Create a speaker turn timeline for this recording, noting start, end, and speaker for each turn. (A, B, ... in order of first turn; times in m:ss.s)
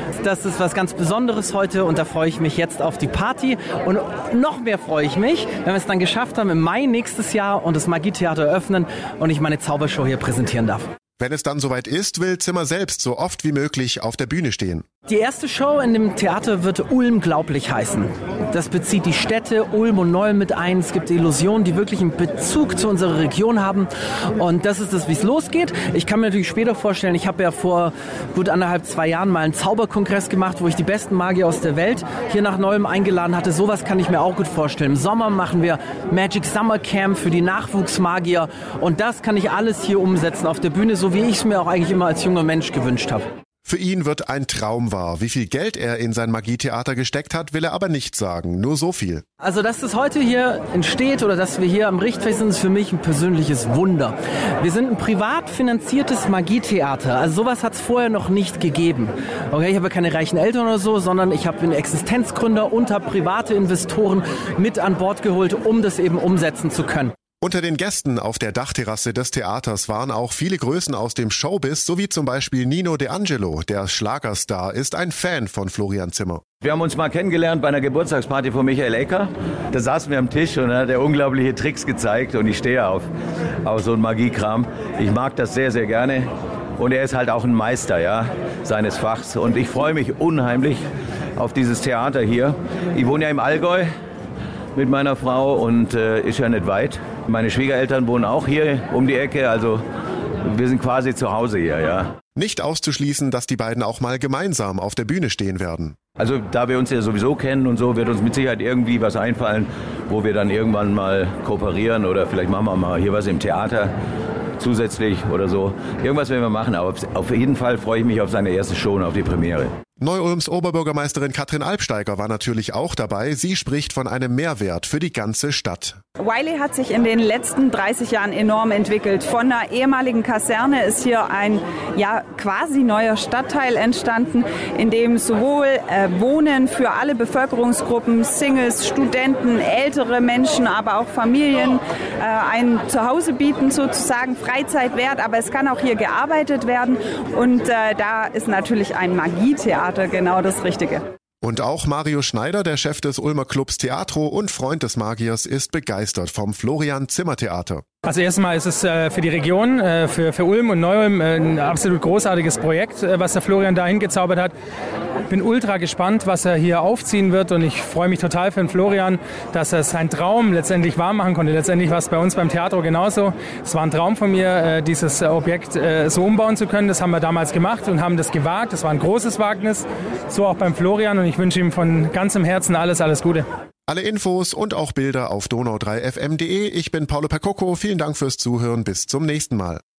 0:00.2-0:10.9 A
0:11.2-0:14.8 B
0:15.1-0:43.2 A
0:43.6-0:49.2 B
0:49.4-1:07.1 A
1:07.4-1:16.4 B
1:16.6-1:23.1 C
1:23.6-1:33.9 C
1:34.8-1:39.8 C
1:40.4-1:42.1 C
1:42.4-1:46.0 B
1:46.2-1:53.9 C
1:54.6-1:59.7 C
2:00.0-2:06.0 B
2:06.2-2:31.0 D
2:31.4-2:37.8 B
2:38.0-2:44.5 E
2:45.3-3:03.4 E
3:03.9-3:09.8 B